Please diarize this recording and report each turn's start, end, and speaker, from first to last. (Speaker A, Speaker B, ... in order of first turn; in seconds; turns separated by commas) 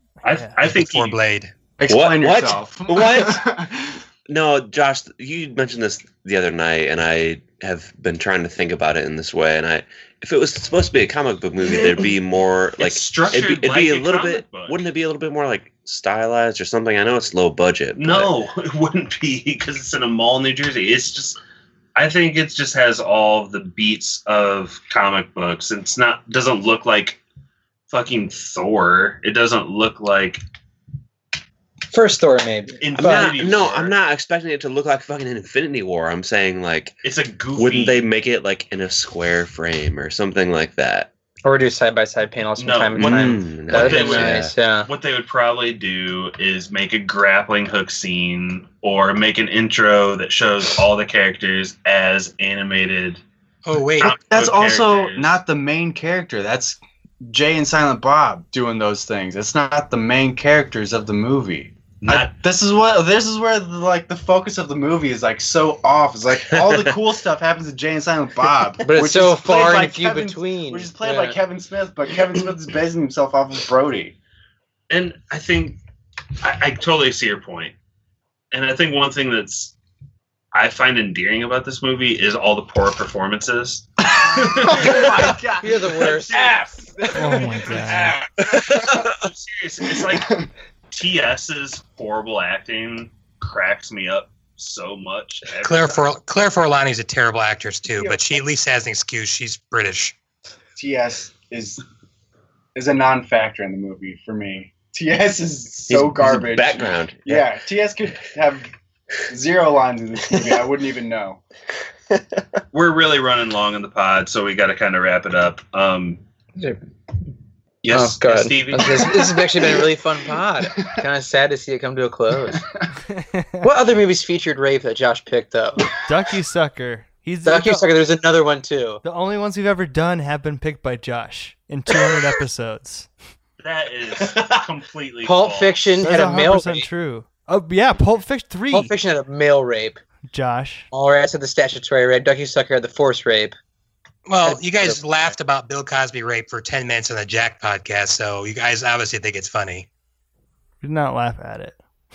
Speaker A: 0.2-1.2, Speaker B: 0.3-0.5, Speaker C: 0.6-1.5, Speaker D: 1.8-4.0, Speaker E: 1.9-3.4, Speaker E: 4.3-18.3, Speaker A: 12.8-14.8, Speaker A: 18.0-21.4, Speaker A: 22.0-27.2, Speaker A: 27.9-30.4, Speaker F: 31.9-33.4, Speaker A: 32.8-34.0, Speaker E: 33.0-37.0, Speaker A: 37.0-38.0, Speaker E: 37.6-41.1, Speaker F: 41.4-44.9, Speaker A: 42.6-53.2, Speaker E: 43.0-44.5, Speaker C: 53.7-54.2, Speaker A: 54.0-55.4, Speaker D: 54.2-74.2, Speaker A: 62.0-62.3, Speaker F: 68.8-71.4, Speaker A: 74.9-75.8, Speaker A: 76.4-77.7, Speaker A: 78.5-79.8, Speaker A: 80.5-85.4, Speaker D: 84.2-89.0, Speaker F: 85.6-86.5, Speaker A: 86.0-87.2, Speaker B: 87.2-88.1, Speaker A: 88.7-90.3, Speaker D: 90.1-90.5, Speaker A: 90.9-96.1, Speaker C: 95.6-100.2, Speaker D: 100.8-101.8, Speaker D: 102.8-108.7, Speaker E: 105.9-107.5, Speaker D: 109.3-111.4, Speaker A: 112.7-116.2, Speaker A: 117.8-119.7, Speaker F: 117.9-122.7, Speaker B: 123.2-123.7, Speaker F: 123.6-126.0, Speaker B: 126.0-127.9, Speaker F: 127.5-129.0, Speaker B: 129.0-133.1, Speaker A: 133.6-135.8, Speaker F: 135.2-136.9, Speaker B: 136.0-138.9, Speaker F: 138.7-140.0, Speaker B: 140.3-140.9, Speaker F: 140.9-143.6, Speaker C: 144.3-149.9, Speaker F: 144.4-145.3, Speaker B: 150.8-151.8